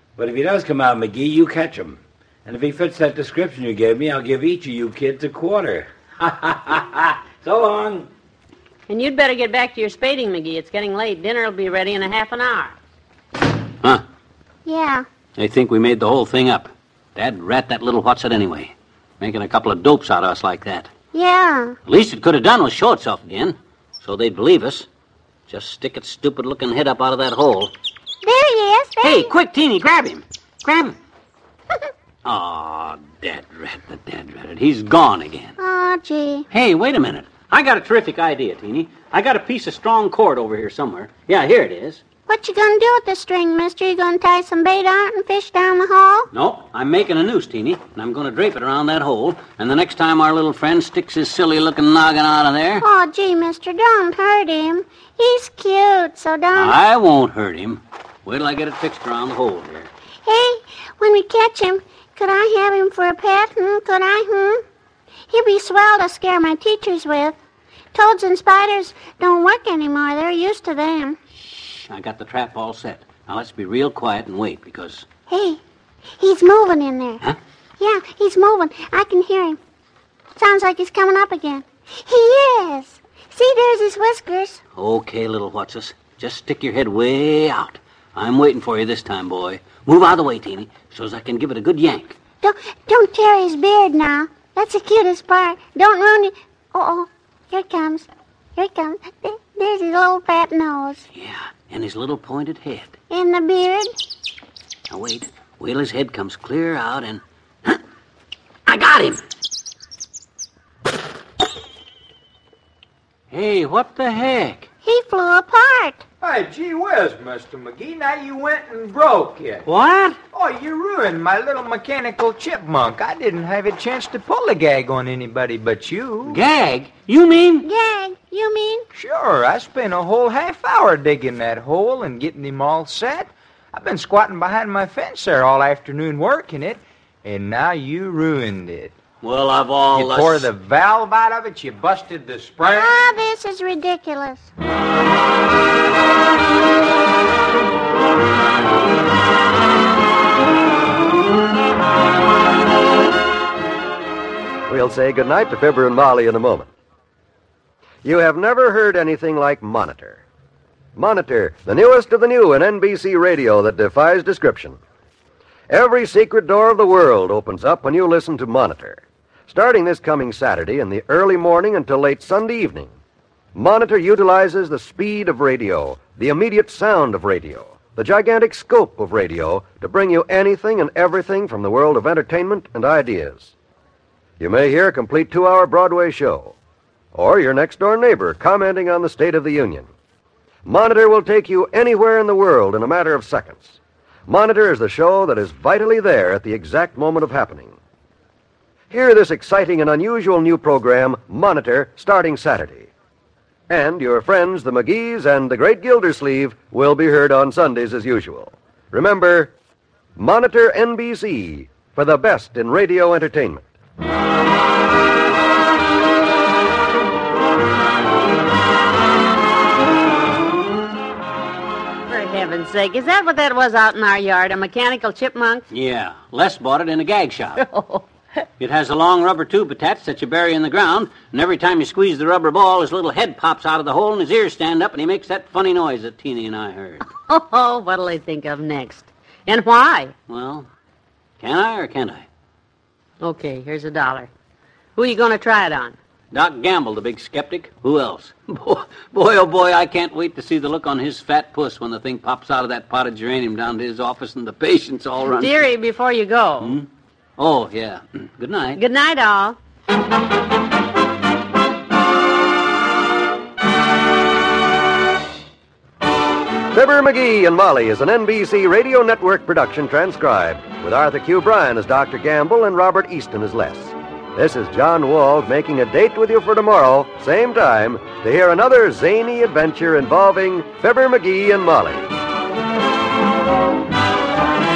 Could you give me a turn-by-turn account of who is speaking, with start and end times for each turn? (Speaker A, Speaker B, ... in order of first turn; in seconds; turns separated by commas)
Speaker A: 0.2-8.1, Speaker B: 8.9-12.8, Speaker C: 14.6-15.1, Speaker D: 15.4-20.9, Speaker C: 21.1-21.8, Speaker D: 21.9-24.9, Speaker D: 25.5-27.7, Speaker C: 28.2-29.3, Speaker D: 29.0-30.9, Speaker D: 32.2-35.5, Speaker C: 35.6-36.4, Speaker D: 36.5-42.0, Speaker C: 42.3-46.3, Speaker D: 46.3-52.9, Speaker C: 52.8-56.8, Speaker D: 56.5-59.9, Speaker C: 60.2-64.6, Speaker C: 65.3-67.3, Speaker C: 67.9-71.2, Speaker D: 71.3-75.0, Speaker C: 75.3-75.6, Speaker C: 76.2-77.2, Speaker C: 77.8-79.6, Speaker C: 80.3-84.6, Speaker D: 84.8-92.2, Speaker C: 92.4-101.1, Speaker D: 101.1-103.0, Speaker C: 103.1-103.9, Speaker D: 104.9-107.8, Speaker D: 108.7-109.2, Speaker D: 113.3-114.7, Speaker C: 114.8-116.0, Speaker E: 116.2-119.6, Speaker D: 119.6-120.2, Speaker E: 120.3-126.4, Speaker D: 126.2-127.7, Speaker C: 127.6-128.8, Speaker E: 128.9-138.9, Speaker D: 139.2-140.5, Speaker E: 139.9-142.9, Speaker C: 142.6-144.5, Speaker F: 154.7-156.7, Speaker F: 158.0-160.2, Speaker F: 160.9-164.8, Speaker F: 165.7-172.9, Speaker F: 173.5-183.5, Speaker F: 184.4-186.5, Speaker F: 187.1-189.9, Speaker F: 190.6-197.8, Speaker F: 198.9-202.9, Speaker F: 203.7-209.5, Speaker F: 210.2-213.7, Speaker B: 222.1-225.6, Speaker D: 225.7-227.6, Speaker B: 227.6-228.1, Speaker D: 228.6-237.0, Speaker B: 237.1-240.1, Speaker D: 240.3-240.7, Speaker D: 241.4-242.2, Speaker B: 243.2-244.3, Speaker B: 244.9-246.0, Speaker D: 246.3-255.7, Speaker B: 255.3-256.8, Speaker D: 256.6-258.8, Speaker B: 258.8-259.6, Speaker F: 266.7-282.1